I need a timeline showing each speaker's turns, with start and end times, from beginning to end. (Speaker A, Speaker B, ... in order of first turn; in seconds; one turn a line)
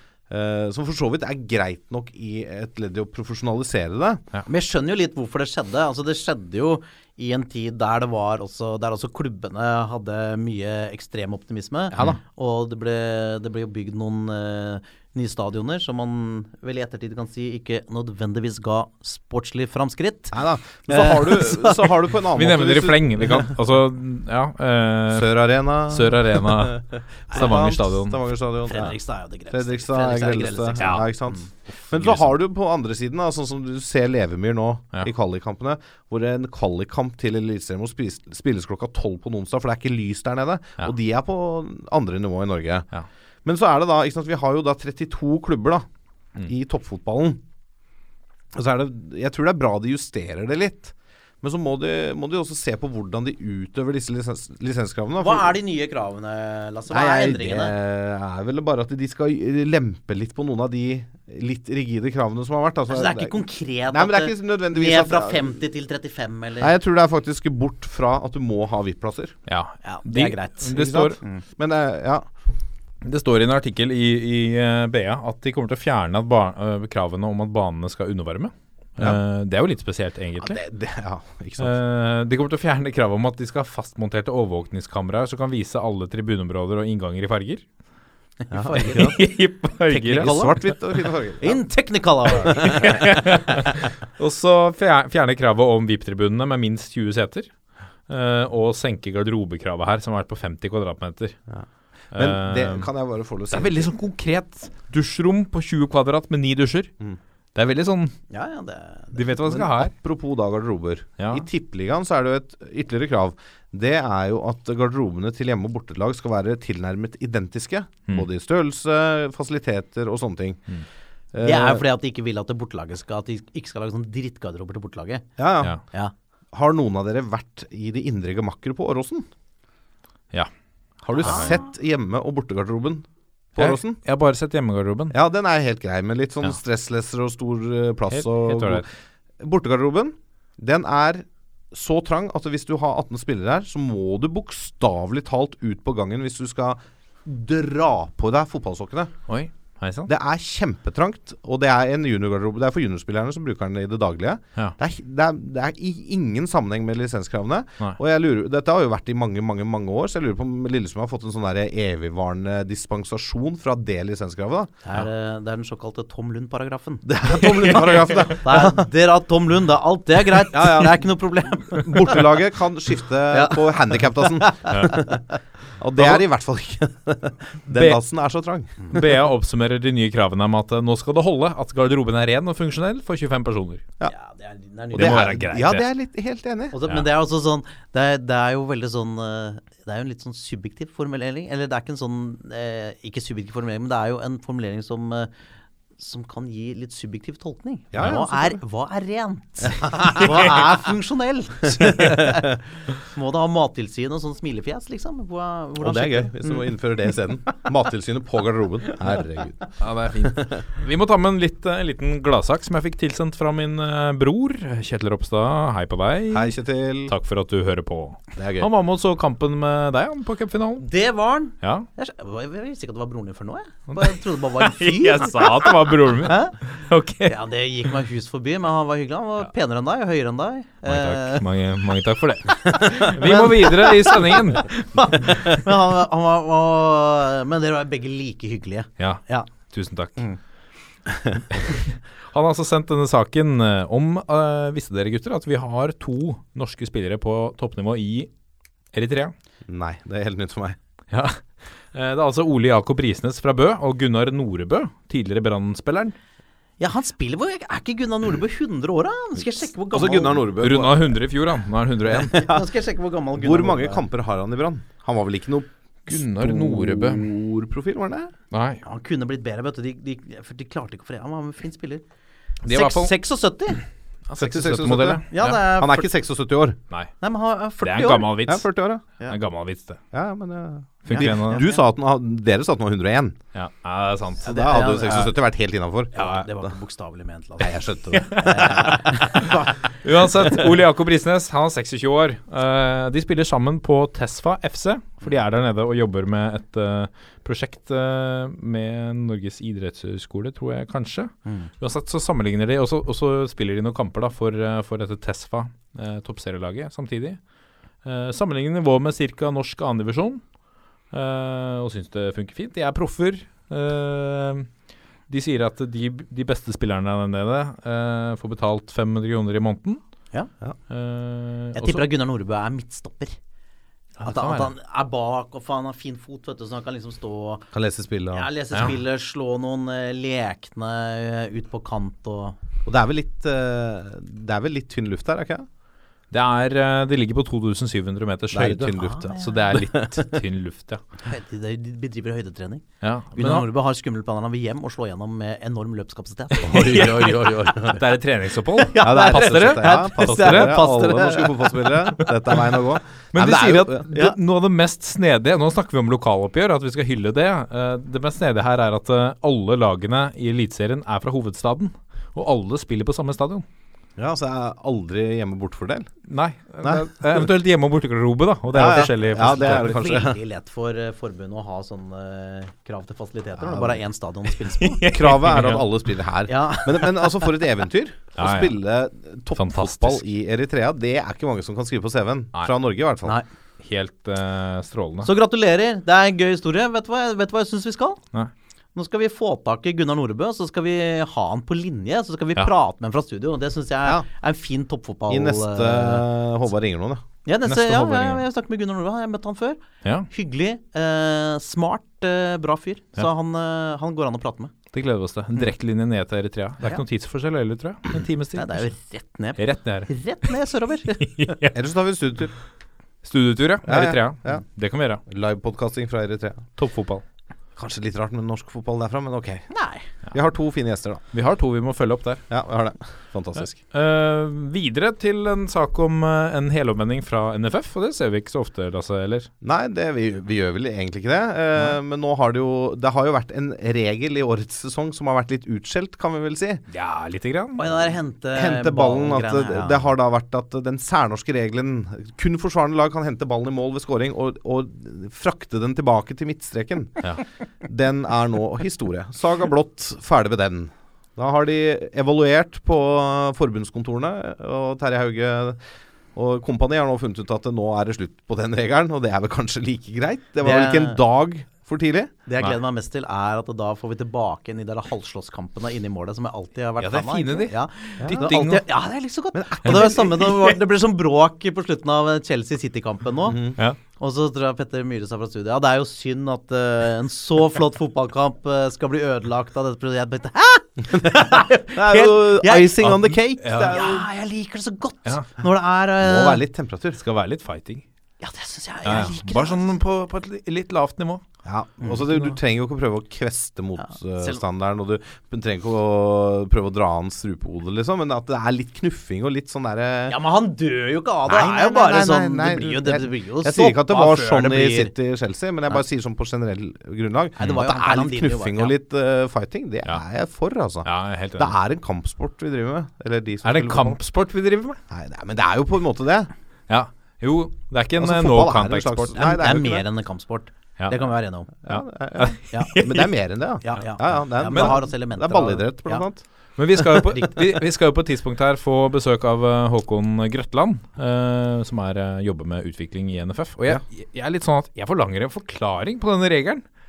Speaker A: 0.3-4.2
Speaker B: 4.5-21.9
Speaker A: 20.3-23.5
Speaker C: 22.4-28.2
Speaker A: 25.1-28.9
Speaker B: 28.7-31.4
Speaker A: 29.5-42.9
Speaker C: 30.8-31.1
Speaker C: 31.9-32.4
Speaker A: 43.5-45.9
Speaker A: 46.4-47.4
Speaker A: 48.5-55.5
Speaker B: 55.2-57.7
Speaker A: 56.9-65.6
Speaker B: 62.9-66.7
Speaker A: 66.6-69.4
Speaker C: 69.5-71.2
Speaker B: 69.8-71.4
Speaker A: 70.7-72.3
Speaker C: 73.0-80.6
Speaker A: 80.4-81.8
Speaker C: 81.6-87.6
Speaker B: 88.4-89.2
Speaker A: 88.5-89.2
Speaker C: 88.8-90.5
Speaker B: 89.9-90.8
Speaker A: 90.1-91.6
Speaker B: 91.4-93.2
Speaker A: 92.5-92.8
Speaker C: 92.6-97.5
Speaker C: 98.1-101.4
Speaker A: 101.5-103.9
Speaker C: 102.1-102.9
Speaker C: 103.5-106.9
Speaker C: 107.5-108.2
Speaker B: 108.3-109.4
Speaker C: 109.1-109.9
Speaker A: 109.5-120.7
Speaker C: 111.2-111.5
Speaker A: 121.3-121.8
Speaker B: 121.4-125.3
Speaker A: 125.4-125.8
Speaker A: 126.5-129.3
Speaker A: 131.0-134.0
Speaker B: 131.2-131.6
Speaker C: 131.2-131.6
Speaker C: 133.6-135.2
Speaker A: 135.1-138.9
Speaker C: 138.1-138.8
Speaker A: 139.4-149.1
Speaker C: 149.3-150.1
Speaker A: 150.1-164.8
Speaker B: 164.8-167.1
Speaker A: 167.1-168.9
Speaker C: 167.4-168.1
Speaker B: 168.3-172.2
Speaker A: 170.5-175.2
Speaker B: 173.3-174.9
Speaker A: 175.8-178.9
Speaker C: 177.7-178.0
Speaker C: 178.9-183.9
Speaker B: 184.1-185.3
Speaker C: 184.9-185.9
Speaker A: 184.9-186.8
Speaker B: 186.7-195.3
Speaker B: 196.0-206.7
Speaker A: 197.9-198.6
Speaker A: 199.8-200.3
Speaker A: 201.9-202.4
Speaker A: 205.8-210.5
Speaker C: 209.8-216.5
Speaker A: 216.3-217.1
Speaker C: 217.1-220.9
Speaker A: 218.4-218.7
Speaker B: 220.8-226.6
Speaker C: 221.6-221.9
Speaker C: 223.9-227.4
Speaker B: 227.2-231.4
Speaker C: 230.9-235.5
Speaker B: 232.7-239.5
Speaker C: 239.0-240.2
Speaker A: 241.1-241.4
Speaker C: 241.5-248.3
Speaker C: 248.9-249.3
Speaker A: 249.7-250.8
Speaker C: 251.1-256.1
Speaker B: 256.8-260.4
Speaker A: 259.9-261.2
Speaker C: 260.6-262.4
Speaker B: 262.3-264.0
Speaker A: 263.4-268.3
Speaker C: 266.1-267.3
Speaker C: 268.5-268.8
Speaker B: 268.8-272.0
Speaker C: 272.6-273.1
Speaker B: 272.7-273.8
Speaker C: 274.3-275.6
Speaker A: 274.4-276.8
Speaker B: 275.3-276.1
Speaker B: 277.2-278.4
Speaker C: 277.8-280.0
Speaker A: 278.4-279.0
Speaker A: 280.1-283.4
Speaker C: 281.1-281.6
Speaker B: 281.1-281.8
Speaker C: 283.5-284.5
Speaker B: 284.4-285.4
Speaker A: 284.4-286.7
Speaker B: 286.1-289.8
Speaker C: 286.2-286.4
Speaker A: 287.6-289.0
Speaker C: 288.1-307.4
Speaker C: 308.0-310.4
Speaker C: 311.1-314.7
Speaker C: 315.3-320.0
Speaker C: 320.9-322.1
Speaker B: 321.8-323.4
Speaker C: 324.2-324.7
Speaker B: 324.2-327.7
Speaker A: 327.7-328.5
Speaker B: 328.3-332.6
Speaker A: 332.9-335.7
Speaker C: 336.3-341.0
Speaker A: 338.5-340.2
Speaker B: 339.0-339.5
Speaker B: 341.2-348.0
Speaker C: 343.0-343.7
Speaker A: 346.6-348.0
Speaker C: 346.7-350.9
Speaker B: 348.8-352.3
Speaker A: 349.0-354.1
Speaker C: 353.3-363.6
Speaker A: 364.2-366.1
Speaker C: 366.3-369.9
Speaker A: 366.8-367.5
Speaker A: 368.7-370.4
Speaker B: 368.9-375.0
Speaker A: 373.6-374.0
Speaker C: 374.8-375.9
Speaker A: 375.1-383.4
Speaker B: 376.5-377.5
Speaker C: 378.4-378.8
Speaker C: 379.6-380.2
Speaker C: 383.8-385.3
Speaker B: 385.2-388.2
Speaker B: 388.9-396.3
Speaker A: 395.3-397.2
Speaker B: 397.4-404.7
Speaker C: 397.7-398.4
Speaker C: 400.0-400.3
Speaker C: 404.9-408.9
Speaker B: 408.6-411.6
Speaker C: 409.6-410.1
Speaker C: 411.2-411.8
Speaker A: 411.7-412.5
Speaker C: 413.2-415.2
Speaker A: 413.8-414.6
Speaker A: 415.3-416.7
Speaker C: 416.8-417.2
Speaker A: 417.8-419.7
Speaker B: 419.7-420.1
Speaker A: 420.3-421.2
Speaker C: 421.3-422.4
Speaker A: 422.5-423.8
Speaker C: 423.8-429.5
Speaker A: 429.6-436.8
Speaker C: 436.9-437.9
Speaker B: 437.8-440.0
Speaker A: 438.5-447.3
Speaker A: 447.8-455.8
Speaker A: 456.4-462.3
Speaker B: 460.6-461.2
Speaker B: 462.5-486.6
Speaker C: 467.0-468.8
Speaker A: 468.2-468.6
Speaker A: 469.5-470.4
Speaker C: 469.8-470.8
Speaker A: 473.5-473.8
Speaker A: 481.1-484.2
Speaker C: 483.0-484.1
Speaker A: 486.2-487.2
Speaker C: 487.2-488.0
Speaker B: 488.4-489.9
Speaker C: 489.0-491.4
Speaker A: 491.6-500.4
Speaker B: 494.0-494.6
Speaker B: 500.3-505.1
Speaker A: 501.5-514.2
Speaker B: 507.6-509.0
Speaker C: 511.0-511.8
Speaker C: 513.6-515.0
Speaker A: 515.1-516.5
Speaker C: 516.9-519.4
Speaker A: 518.2-520.0
Speaker B: 519.4-521.7
Speaker A: 521.8-526.4
Speaker C: 521.9-523.3
Speaker B: 522.7-523.1
Speaker B: 523.8-526.3
Speaker C: 524.7-525.0
Speaker C: 526.8-536.8